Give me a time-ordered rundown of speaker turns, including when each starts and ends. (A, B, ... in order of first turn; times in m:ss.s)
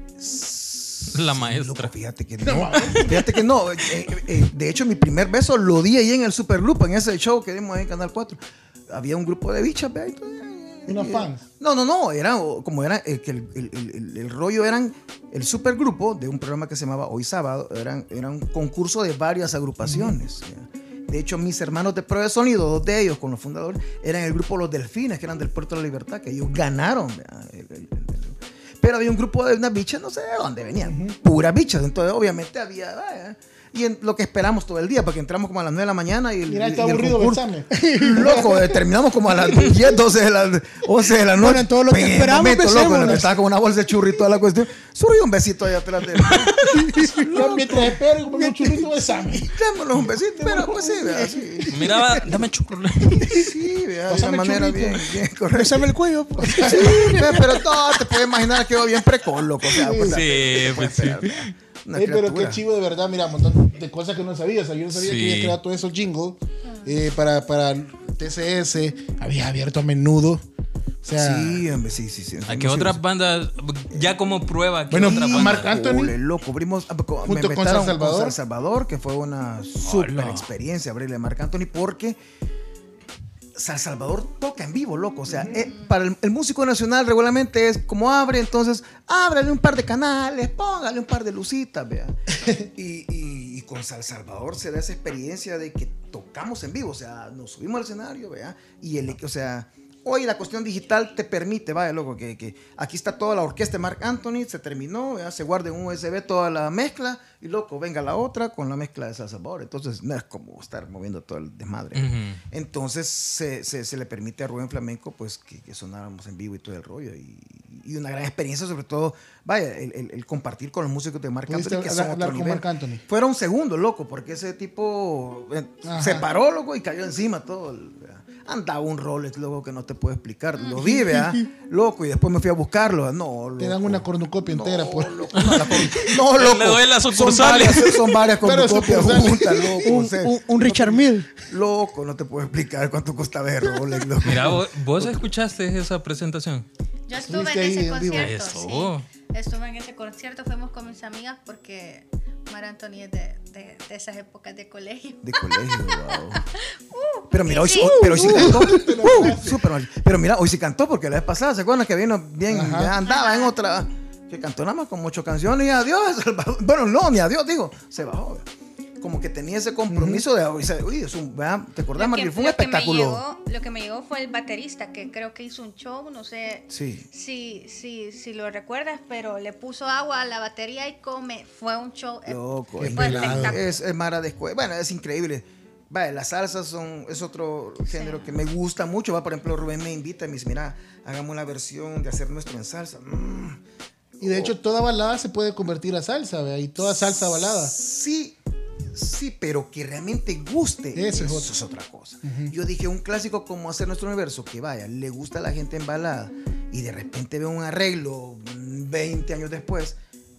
0:00.2-0:52.3 A
0:01.1-0:01.9 B
0:02.4-0:03.2 C
0:02.8-0:03.3 B
0:10.9-0:11.4 C
0:19.8-0:20.2 C
0:30.8-0:31.2 C
0:36.5-0:38.8 C
0:41.4-0:43.3 D
0:42.9-0:43.2 C
0:46.4-0:47.2 D
0:47.2-0:51.8 C
0:51.7-0:53.2 B
0:53.2-0:55.8 A
0:54.1-0:55.0 C
0:54.2-0:55.0 D
0:55.5-0:57.7 D
0:56.4-0:57.2 C
0:56.5-1:02.6 A
0:59.7-1:00.2 C
1:00.0-1:01.5 B
1:01.9-1:10.4 C
1:05.0-1:05.6 B
1:11.0-1:11.7 C
1:11.2-1:13.0 A
1:12.5-1:15.7 B
1:14.9-1:16.2 C
1:15.0-1:22.2 A
1:17.2-1:18.4 C
1:19.8-1:20.5 B
1:23.6-2:25.3 A
1:25.3-1:25.7 C
1:51.9-1:52.4 B
2:01.5-2:03.0 C
2:05.8-2:06.3 C
2:10.8-2:11.3 C
2:13.6-2:15.3 C
2:15.4-2:18.2 B
2:18.4-2:20.1 C
2:19.8-2:21.4 D
2:24.2-2:26.7 B
2:27.1-2:38.0 E
2:27.1-2:28.4 C
2:28.2-2:29.0 B
2:35.2-2:36.4 A
2:37.3-2:48.4 A
2:37.7-2:39.2 D
2:38.0-2:39.6 C
2:42.5-2:43.0 C
2:43.0-2:43.5 E
2:49.0-2:53.2 A
2:49.9-2:50.2 C
2:52.0-3:03.8 E
2:56.7-2:57.1 A
3:02.3-3:13.6 A
3:02.8-3:03.6 C
3:07.9-3:08.4 E
3:14.2-3:14.5 A
3:14.2-3:17.7 C
3:16.9-3:18.4 A
3:18.9-3:30.0 A
3:21.0-3:21.5 C
3:22.2-3:22.5 C